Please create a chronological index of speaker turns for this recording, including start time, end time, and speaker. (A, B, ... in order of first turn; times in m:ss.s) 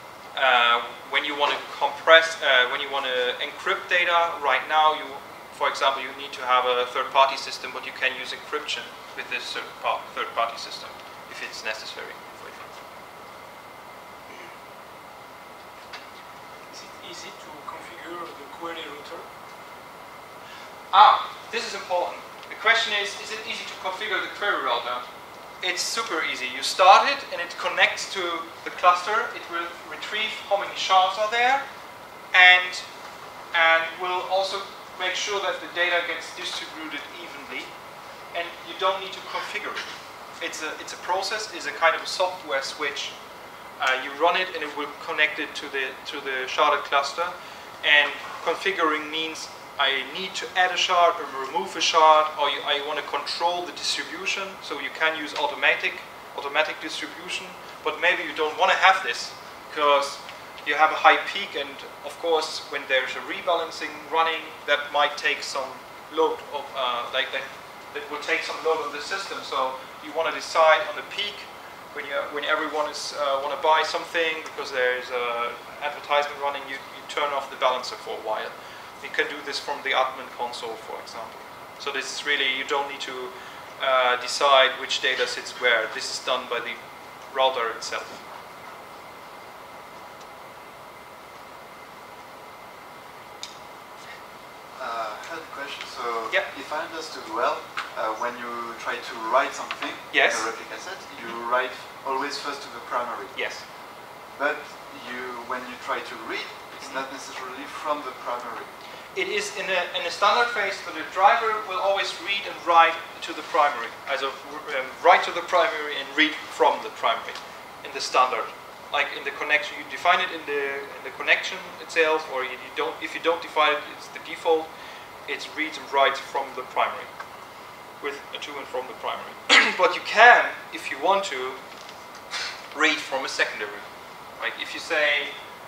0:00.4-0:12.7 A
0:16.7-0:19.3 B
0:20.9-0:25.0 A
0:25.6-0:31.6 A
0:32.3-0:32.8 A
0:33.5-0:37.7 A
0:38.3-0:39.9 A
0:40.4-0:43.2 A
0:43.8-1:26.8 A
1:27.3-1:28.2 A
1:34.8-1:43.7 C
1:40.1-1:40.5 A
1:43.3-1:43.6 A
1:44.4-1:48.7 C
1:49.2-2:04.7 A
2:05.3-2:07.1 A
2:08.0-2:11.6 A
2:12.7-2:13.9 A
2:14.4-2:15.3 A